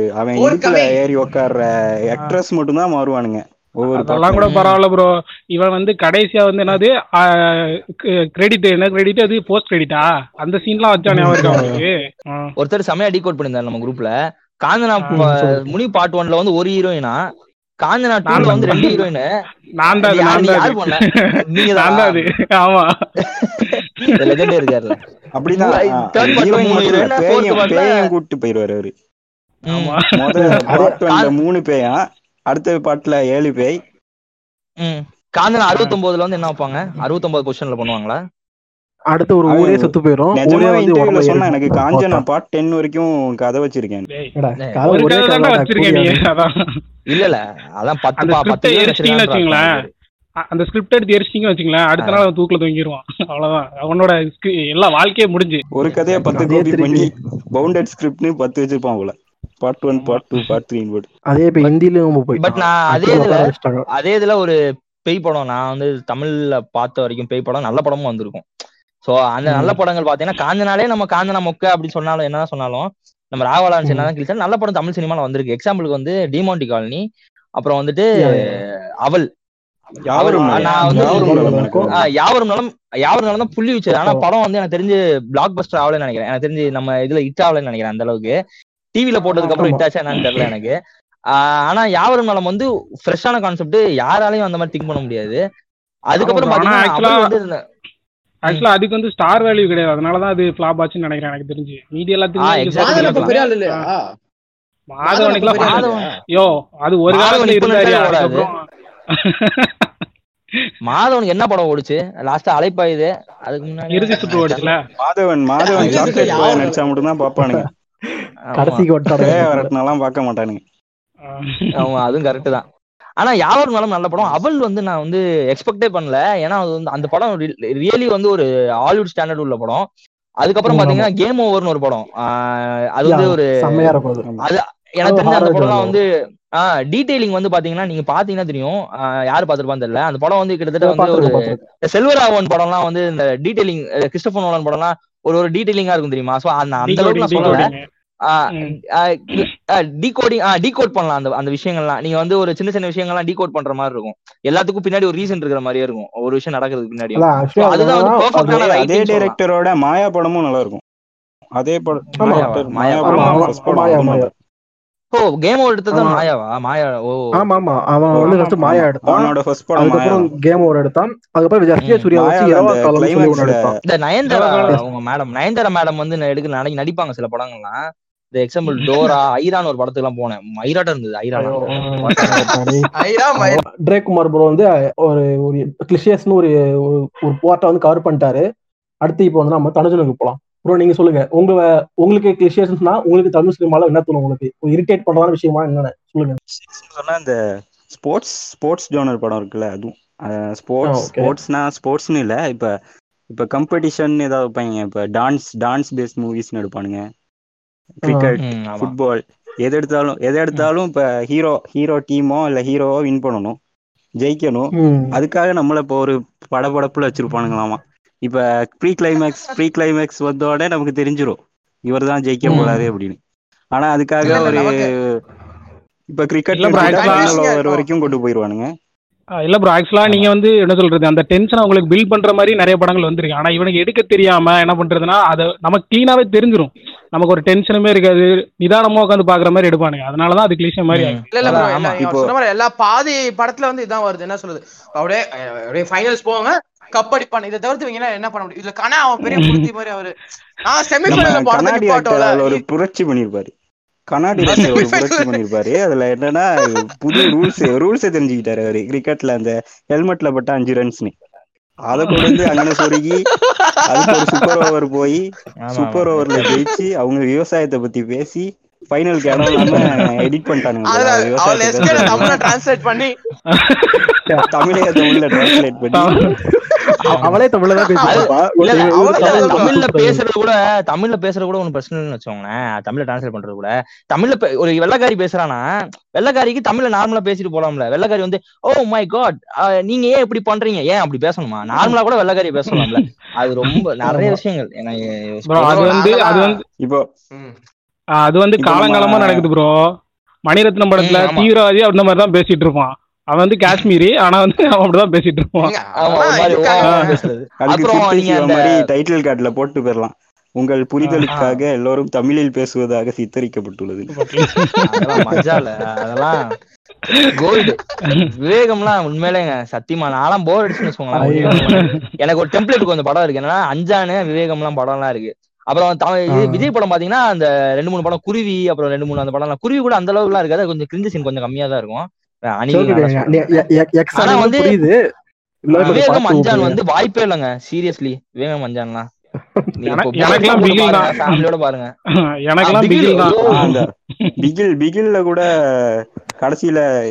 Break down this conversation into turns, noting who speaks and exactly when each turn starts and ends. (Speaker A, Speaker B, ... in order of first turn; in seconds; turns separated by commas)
Speaker A: 0.2-4.5, Speaker B: 0.3-1.0, Speaker C: 3.9-6.9, Speaker D: 4.5-4.8, Speaker C: 8.4-12.5, Speaker E: 11.1-11.8, Speaker D: 11.3-11.7, Speaker D: 12.6-14.1, Speaker D: 14.6-17.2, Speaker C: 15.0-15.3, Speaker E: 15.1-15.7, Speaker D: 17.8-19.2, Speaker C: 18.3-19.1, Speaker E: 18.4-18.8, Speaker C: 19.8-21.1, Speaker D: 20.0-22.2, Speaker C: 21.6-22.9, Speaker D: 23.2-25.0, Speaker C: 23.8-24.6, Speaker A: 25.4-28.9, Speaker D: 25.6-27.8, Speaker D: 29.7-30.0, Speaker C: 29.7-30.6, Speaker A: 30.1-33.8, Speaker E: 30.5-31.0, Speaker D: 34.8-38.2, Speaker E: 39.1-42.2, Speaker A: 39.5-44.0, Speaker E: 44.4-46.2, Speaker C: 44.9-46.5, Speaker D: 47.1-49.9, Speaker C: 48.2-49.7, Speaker C: 50.5-55.6, Speaker A: 55.7-61.1, Speaker D: 55.9-56.2, Speaker E: 56.3-57.1, Speaker C: 60.0-60.5, Speaker E: 61.3-63.9, Speaker D: 62.4-64.6, Speaker D: 65.1-68.4, Speaker D: 69.0-77.0, Speaker E: 69.5-69.8, Speaker D: 77.6-78.1, Speaker E: 78.2-78.5, Speaker A: 80.1-82.1, Speaker D: 80.2-88.3, Speaker E: 80.8-81.9, Speaker E: 84.0-84.2, Speaker D: 89.0-90.7, Speaker E: 89.4-89.8, Speaker D: 91.3-95.4, Speaker D: 96.1-97.6, Speaker C: 96.2-97.3, Speaker C: 98.5-103.8, Speaker D: 102.4-103.4, Speaker B: 102.8-103.9, Speaker C: 104.9-108.6, Speaker B: 105.0-105.9, Speaker D: 105.5-106.0, Speaker D: 107.1-108.5, Speaker C: 109.3-109.8, Speaker D: 110.8-114.6, Speaker C: 113.9-114.8, Speaker A: 115.0-117.7, Speaker B: 115.6-116.9, Speaker D: 118.6-118.8, Speaker E: 118.6-119.7, Speaker A: 119.2-120.6, Speaker C: 121.3-121.9, Speaker D: 121.8-122.6, Speaker D: 123.2-129.9, Speaker D: 130.4-133.9, Speaker E: 130.7-131.1, Speaker E: 133.1-134.2, Speaker D: 134.4-136.0, Speaker E: 135.1-135.9, Speaker D: 136.6-147.7, Speaker E: 140.8-141.6, Speaker C: 146.8-147.8, Speaker E: 147.4-147.7, Speaker D: 148.2-159.3, Speaker E: 157.2-158.6, Speaker A: 158.5-160.8, Speaker A: 161.6-164.3, Speaker E: 162.2-162.5, Speaker D: 162.2-163.4, Speaker C: 163.1-163.9, Speaker E: 163.1-164.3, Speaker D: 165.1-167.3, Speaker E: 165.9-166.2, Speaker E: 167.4-173.8, Speaker A: 168.2-170.3, Speaker C: 168.2-168.6, Speaker A: 172.1-173.7, Speaker D: 173.9-177.8, Speaker C: 174.3-174.8, Speaker D: 178.3-182.5, Speaker E: 181.4-188.4, Speaker B: 182.5-183.6, Speaker E: 189.1-196.4, Speaker A: 196.5-197.4, Speaker A: 197.9-202.7, Speaker E: 200.9-201.3, Speaker A: 203.3-207.0, Speaker A: 208.1-213.6, Speaker E: 208.1-208.3, Speaker D: 208.4-208.9, Speaker A: 214.2-223.2, Speaker E: 214.8-215.1, Speaker E: 222.5-222.7, Speaker A: 223.7-225.0, Speaker B: 224.2-224.9, Speaker A: 226.1-228.7, Speaker C: 226.5-227.4, Speaker B: 226.8-227.8, Speaker C: 229.4-241.2, Speaker D: 240.9-242.0, Speaker B: 241.3-250.1, Speaker A: 241.5-242.3, Speaker C: 249.2-249.7, Speaker B: 250.6-252.6, Speaker A: 251.1-253.5, Speaker A: 254.1-261.1, Speaker C: 254.4-254.7, Speaker B: 254.5-255.4, Speaker A: 261.9-263.2, Speaker B: 262.5-262.9, Speaker B: 263.5-264.6, Speaker A: 263.9-272.4, Speaker D: 265.6-266.6, Speaker C: 269.4-270.0, Speaker B: 270.9-273.2, Speaker C: 273.6-274.1, Speaker A: 274.5-276.2, Speaker C: 275.1-276.3, Speaker E: 276.7-280.2, Speaker D: 277.1-277.4, Speaker B: 278.0-279.7, Speaker D: 278.0-285.6, Speaker D: 286.2-296.0, Speaker C: 292.7-293.1, Speaker E: 294.1-294.4, Speaker C: 295.5-296.6, Speaker B: 295.6-296.6, Speaker A: 296.8-297.1, Speaker C: 298.2-299.7, Speaker A: 298.6-299.4, Speaker C: 300.5-305.7, Speaker D: 301.0-301.5, Speaker B: 305.6-307.1, Speaker D: 305.9-308.7, Speaker C: 306.8-307.2, Speaker A: 307.6-314.1, Speaker C: 311.0-311.3, Speaker D: 311.3-311.6, Speaker C: 314.1-315.6, Speaker D: 314.9-316.5, Speaker D: 317.3-317.8, Speaker D: 318.4-333.6, Speaker E: 321.1-321.8, Speaker C: 321.4-322.0, Speaker E: 326.3-326.7, Speaker E: 332.7-334.9, Speaker D: 334.2-334.8, Speaker E: 335.6-336.8, Speaker C: 335.7-336.0, Speaker D: 335.8-339.1, Speaker D: 339.8-341.9, Speaker C: 339.9-341.4, Speaker C: 342.5-344.4, Speaker D: 342.6-343.7, Speaker A: 343.5-346.8